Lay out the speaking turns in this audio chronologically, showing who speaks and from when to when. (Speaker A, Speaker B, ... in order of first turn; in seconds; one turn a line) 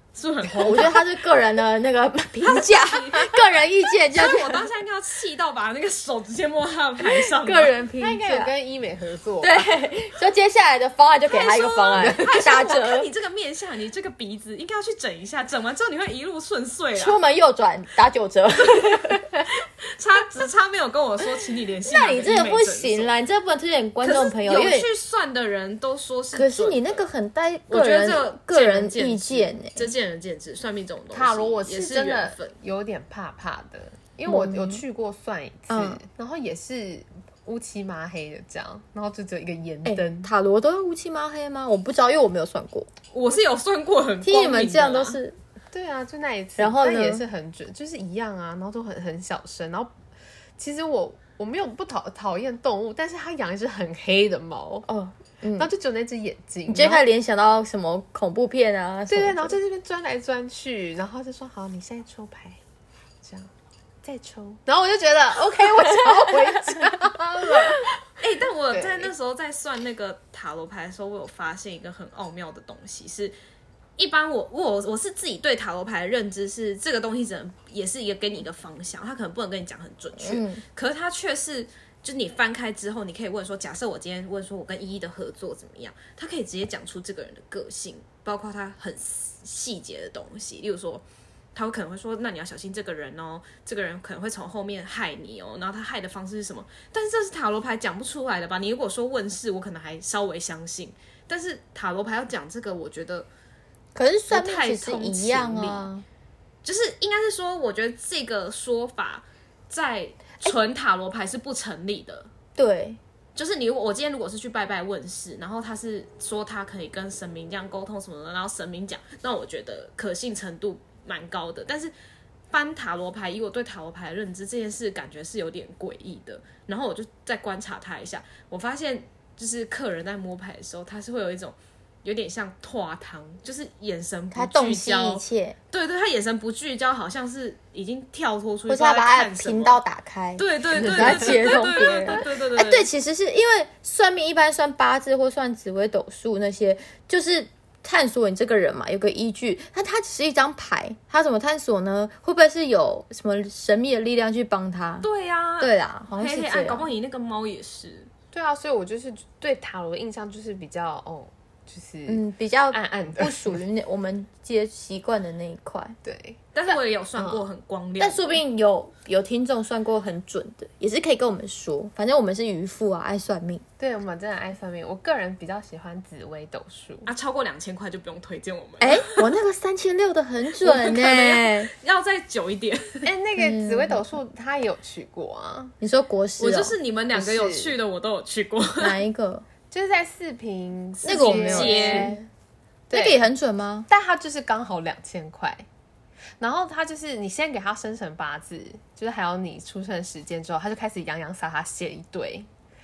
Speaker A: 0.1-1.0
Speaker B: 0.5-4.7
Speaker A: 2.4-7.8
Speaker B: 7.0-8.5
Speaker C: 8.0-9.8
Speaker B: 9.4-13.1
Speaker A: 11.3-17.2
Speaker C: 12.0-12.3
Speaker B: 16.9-19.2
Speaker A: 19.9-23.1
Speaker B: 21.8-24.9
Speaker A: 24.0-27.0
Speaker B: 26.3-29.9
Speaker A: 27.7-32.5
Speaker C: 31.1-40.3
Speaker B: 34.3-34.8
Speaker B: 35.7-36.0
Speaker B: 39.8-42.9
Speaker A: 43.1-45.2
Speaker B: 44.2-45.4
Speaker C: 45.7-50.0
Speaker B: 46.6-47.2
Speaker C: 50.6-54.9
Speaker B: 54.9-55.7
Speaker C: 55.6-57.0
Speaker B: 56.7-59.6
Speaker C: 59.1-62.6
Speaker C: 63.2-63.5
Speaker C: 64.0-67.9
Speaker B: 65.8-67.7
Speaker A: 68.2-73.3
Speaker C: 68.7-69.1
Speaker A: 74.0-91.0
Speaker B: 80.2-80.6
Speaker A: 91.5-103.3
Speaker B: 103.9-106.0
Speaker A: 104.3-105.9
Speaker A: 106.6-112.3
Speaker B: 112.5-113.0
Speaker A: 113.3-121.9
Speaker A: 122.5-139.8
Speaker B: 134.3-135.6
Speaker B: 138.7-155.1
Speaker A: 140.4-142.9
Speaker C: 140.9-141.6
Speaker A: 155.0-158.1
Speaker B: 155.6-156.9
Speaker C: 158.3-163.6
Speaker B: 162.1-165.9
Speaker C: 166.0-167.4
Speaker A: 166.5-168.4
Speaker B: 168.0-173.6
Speaker C: 173.8-177.1
Speaker A: 177.1-179.3
Speaker B: 178.8-181.7
Speaker A: 180.6-183.1
Speaker C: 183.0-185.7
Speaker B: 183.4-184.0
Speaker B: 185.8-186.8
Speaker A: 186.4-189.0
Speaker C: 187.1-187.8
Speaker B: 188.8-189.4
Speaker C: 189.7-192.2
Speaker B: 191.0-192.2
Speaker A: 191.1-192.1
Speaker C: 192.9-193.3
Speaker B: 192.9-193.9
Speaker C: 193.9-195.7
Speaker C: 196.4-202.5